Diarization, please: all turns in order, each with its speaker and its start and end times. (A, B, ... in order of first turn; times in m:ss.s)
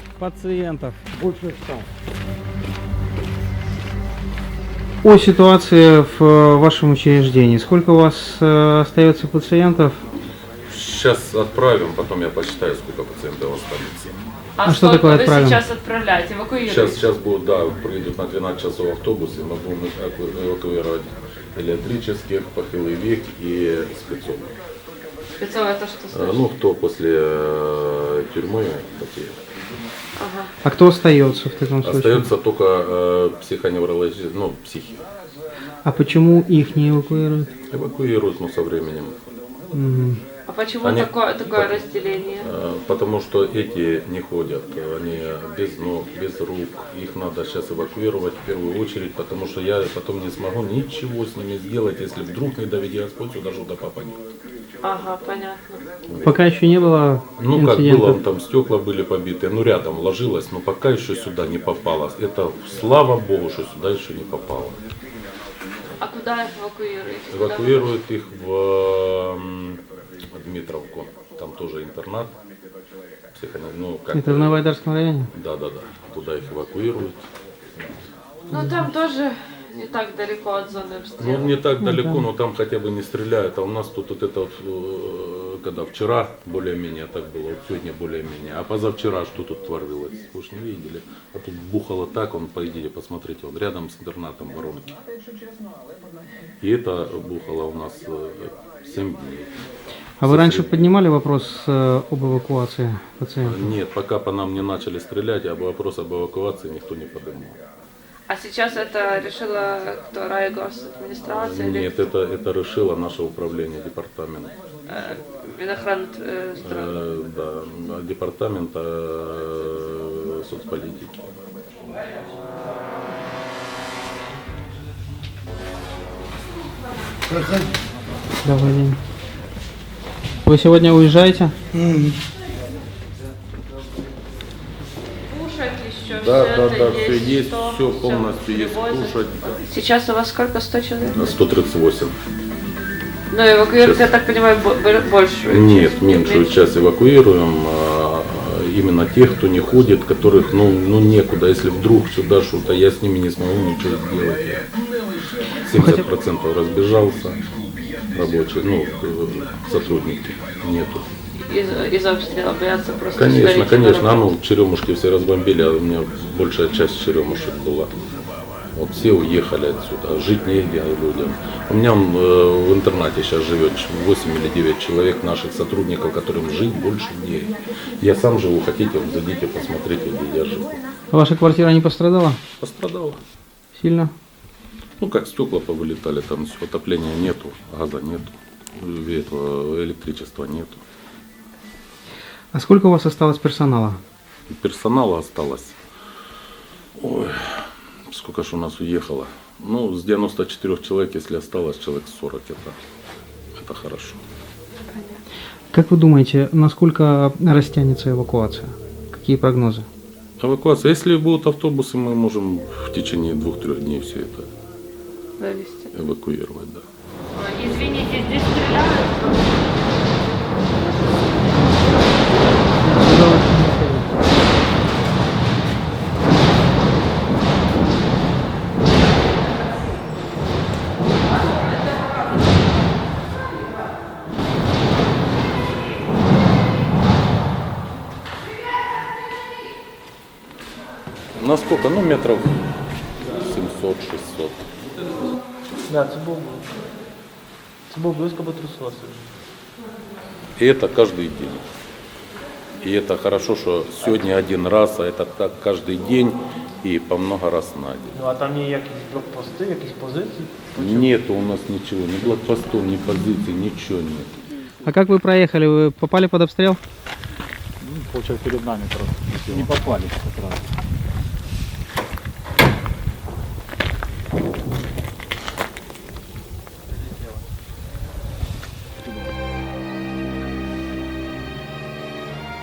0:00.2-0:01.0 A
0:05.0-0:10.0 A
0:10.7-0:14.1 B
0:14.6-0:17.0 C
0:14.7-0:15.6 A
0:16.6-0:24.6 B
0:25.4-0:26.4 C
0:26.1-0:29.4 B
0:30.2-0:30.5 C
0:30.6-0:32.3 A
0:31.8-0:35.0 B
0:35.8-0:37.5 A
0:37.7-0:39.2 B
0:39.7-0:40.2 A
0:40.5-0:42.5 C
0:40.8-0:41.8 B
0:42.4-0:54.2 B
0:54.8-0:55.8 C
0:56.1-0:56.4 B
0:56.2-0:58.2 A
0:57.4-1:04.8 B
1:06.0-1:07.9 C
1:07.3-1:09.8 B
1:10.4-1:12.3 B
1:13.3-1:14.7 B
1:14.1-1:15.3 A
1:15.3-1:17.2 B
1:18.5-1:21.5 C
1:21.2-1:35.0 B
1:21.8-1:22.3 A
1:36.6-1:39.5 B
1:40.2-1:43.7 A
1:40.2-1:40.9 B
1:43.4-1:47.6 B
1:48.3-1:52.0 C
1:51.3-1:54.6 B
1:54.9-1:57.0 C
1:56.6-2:01.3 B
2:08.4-2:09.0 A
2:10.4-2:12.1 A
2:15.3-2:21.4 C
2:16.1-2:19.6 B
2:21.1-2:22.2 B
2:23.3-2:26.6 C
2:23.8-2:24.1 B
2:25.5-2:34.7 B
2:35.6-2:37.4 B
2:35.7-2:36.1 A
2:38.1-2:41.1 B
2:41.4-2:44.3 C
2:43.1-2:47.9 B
2:48.8-3:00.8 B
3:01.1-3:02.4 A
3:02.6-3:03.2 B
3:03.8-3:04.1 A
3:05.0-3:10.8 B
3:12.5-3:14.0 A
3:14.5-3:15.8 B
3:17.0-3:22.8 B
3:23.6-3:24.2 B
3:24.9-3:25.2 C
3:25.7-3:29.9 A
3:30.4-3:34.5 B
3:35.4-3:35.9 C
3:35.9-3:36.8 B
3:37.3-3:39.7 C
3:42.8-3:44.1 A
4:01.4-4:02.6 B
4:03.2-4:04.6 B
4:05.9-4:06.8 D
4:07.9-4:09.3 D
4:10.6-4:11.6 B
4:12.8-4:18.2 B
4:18.2-4:21.1 D
4:20.8-4:24.4 B
4:24.8-4:26.8 A
4:27.8-4:30.6 E